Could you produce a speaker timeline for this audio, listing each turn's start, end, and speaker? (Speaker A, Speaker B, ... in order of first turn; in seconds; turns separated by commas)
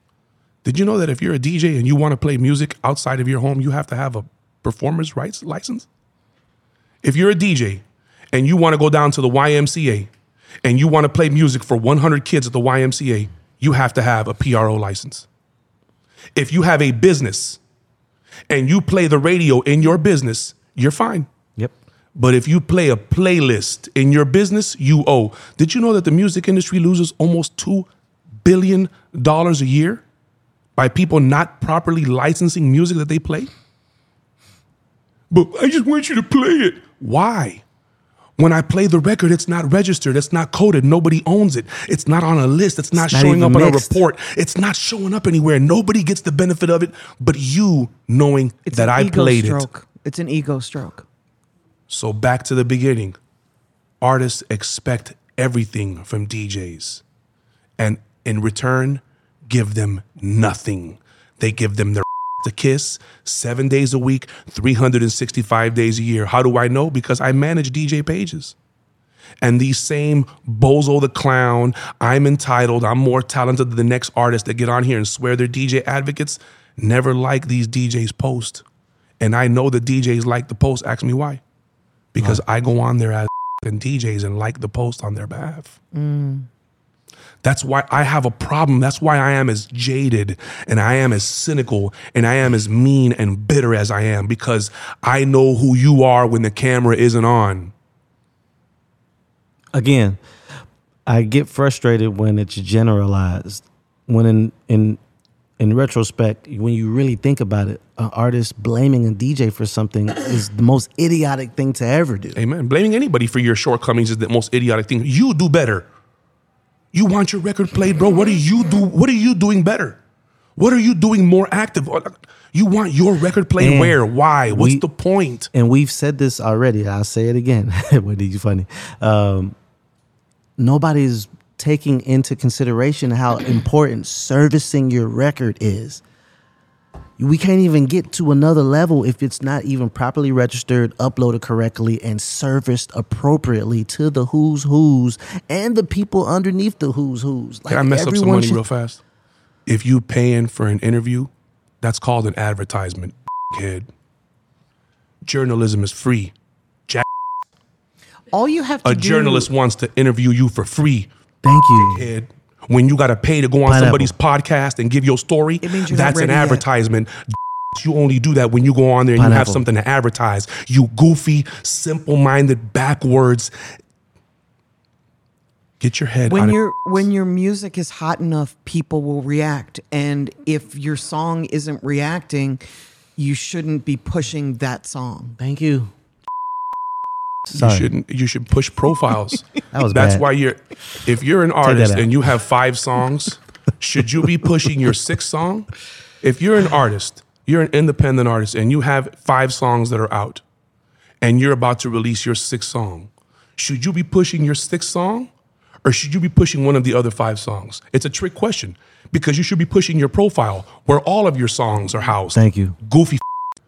Speaker A: 0.6-5.8, Speaker A: 7.0-10.1, Speaker A: 10.6-15.3, Speaker A: 16.3-17.6, Speaker A: 18.5-21.3, Speaker A: 22.1-27.9, Speaker A: 28.4-30.0, Speaker A: 30.8-33.5, Speaker A: 35.3-37.6, Speaker A: 38.4-49.7, Speaker B: 42.9-44.0, Speaker C: 48.7-51.0, Speaker A: 51.9-53.1, Speaker A: 54.0-57.0, Speaker A: 57.8-68.5, Speaker A: 69.4-78.6, Speaker A: 79.2-81.4, Speaker A: 82.1-85.8, Speaker C: 85.9-86.5, Speaker A: 87.4-97.7, Speaker B: 99.7-100.2, Speaker B: 101.0-105.0, Speaker B: 105.6-112.4, Speaker A: 112.3-115.8, Speaker A: 116.9-120.0, Speaker A: 120.6-125.5, Speaker B: 123.6-124.8, Speaker B: 125.5-129.5, Speaker B: 130.6-136.0, Speaker B: 137.2-148.6, Speaker A: 147.7-149.0, Speaker A: 149.7-151.3, Speaker A: 151.8-153.9, Speaker A: 155.2-156.3, Speaker C: 158.3-159.5, Speaker A: 158.8-161.1, Speaker B: 161.4-162.1, Speaker A: 161.7-167.1, Speaker B: 163.6-164.1, Speaker C: 165.6-166.7, Speaker A: 167.7-173.5, Speaker B: 169.2-169.6, Speaker A: 175.8-176.6, Speaker C: 176.2-182.6, Speaker C: 183.2-185.4, Speaker B: 185.4-185.9, Speaker B: 187.4-187.9, Speaker A: 187.5-195.7, Speaker B: 189.7-190.3, Speaker B: 191.6-192.2, Speaker A: 196.2-200.4, Speaker A: 201.2-205.3, Speaker A: 205.8-213.2, Speaker B: 212.3-212.8